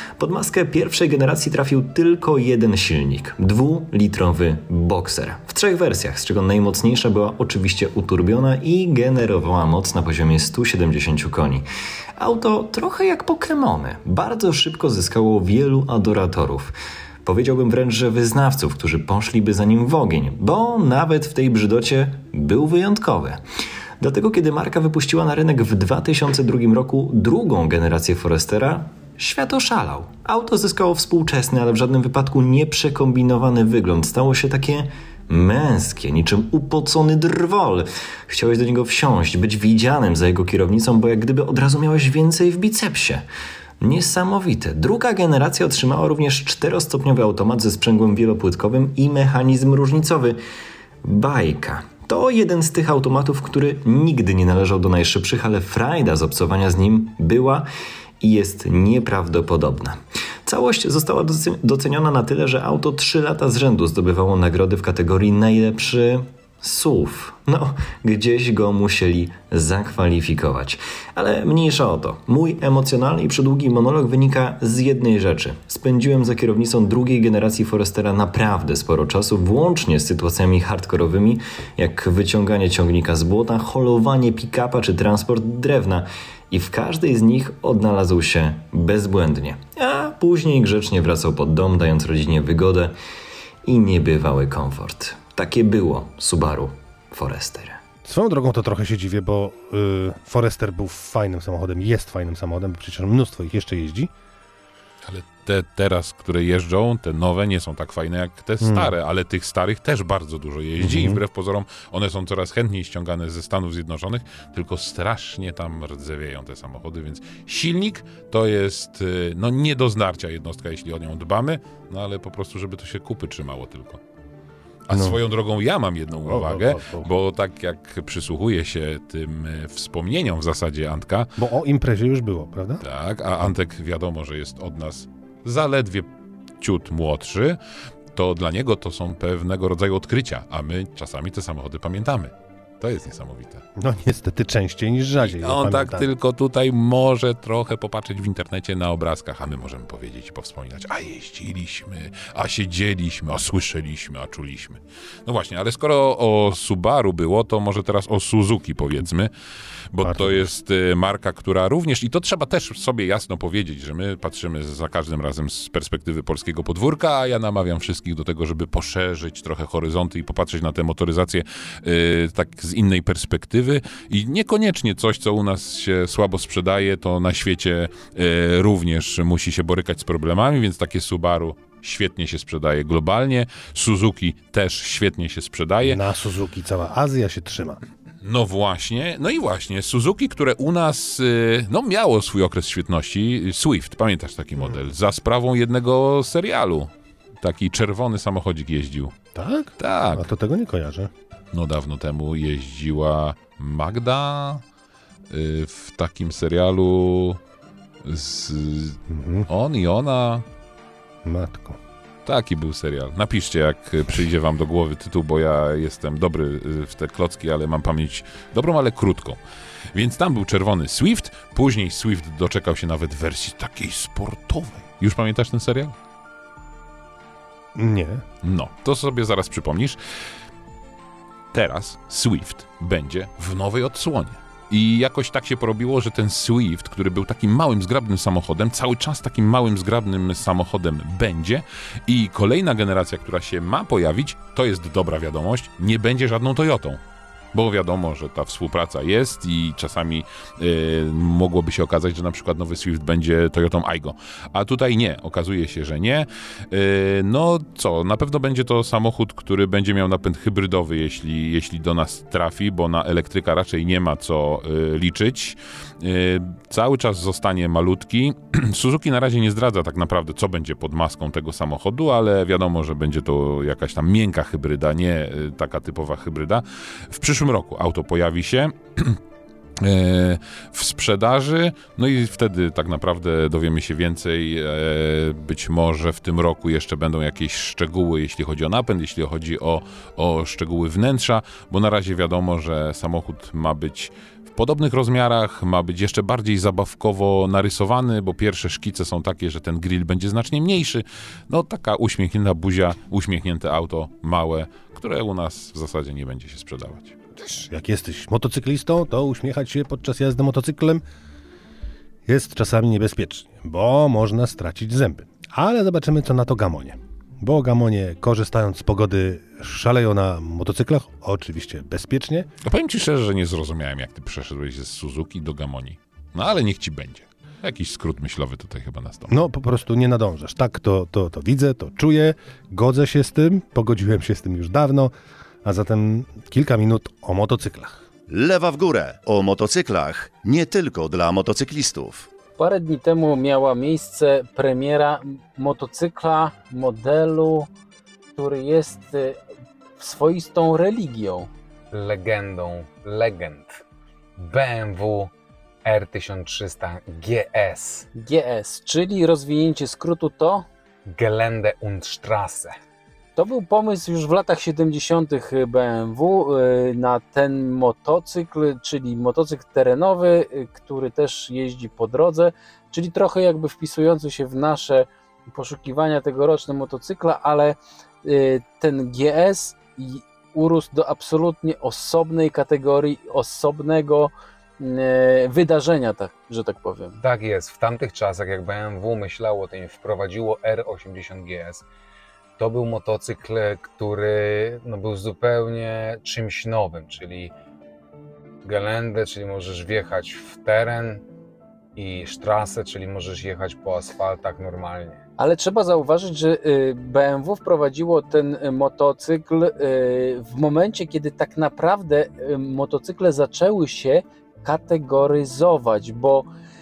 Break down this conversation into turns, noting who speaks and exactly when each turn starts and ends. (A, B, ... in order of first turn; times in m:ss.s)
0:00.2-0:11.7 A
0:12.2-0:16.7 A
0:17.2-0:23.4 A
0:24.0-0:43.2 A
0:43.8-0:50.4 A
0:51.0-0:57.7 A
0:58.2-1:33.0 A
1:33.6-1:37.8 A
1:38.0-1:44.1 B
1:45.0-2:04.0 C
1:48.6-1:48.9 B
1:50.8-1:51.2 B
2:04.9-2:11.4 C
2:04.9-2:05.2 B
2:06.2-2:07.1 B
2:11.4-2:12.8 B
2:12.8-2:16.1 C
2:16.6-2:17.6 C
2:18.1-2:23.6 C
2:23.8-2:26.1 B
2:25.2-2:39.3 C
2:39.9-3:06.0 C
2:40.0-2:40.5 B
3:05.8-3:07.8 B
3:08.2-3:16.9 C
3:17.4-3:19.2 C
3:19.4-3:21.1 B
3:19.8-3:20.3 C
3:21.5-3:24.6 C
3:25.3-3:27.4 C
3:28.0-3:30.4 C
3:29.1-3:29.5 B
3:31.2-3:31.8 B
3:32.3-3:39.4 C
3:39.9-3:46.0 C
3:47.8-3:48.2 B
3:48.4-3:50.0 C
3:51.5-4:07.0 C
4:07.5-4:39.2 C
4:39.8-5:07.2 C
5:07.4-5:11.0 B
5:12.3-5:22.5 B
5:22.6-5:29.4 C
5:29.3-5:35.1 B
5:35.6-5:38.1 B
5:38.3-5:42.3 D
5:42.6-5:47.7 E
5:48.4-5:49.4 E
5:50.0-5:51.5 E
5:51.9-5:53.8 F
5:54.4-5:55.3 F
5:55.8-5:58.1 F
5:58.2-6:00.7 E
6:01.1-6:02.8 F
6:03.4-6:27.2 E
6:27.2-6:31.8 F
6:32.6-6:37.5 F
6:38.6-6:41.2 F
6:42.0-6:45.2 F
6:45.4-6:56.5 E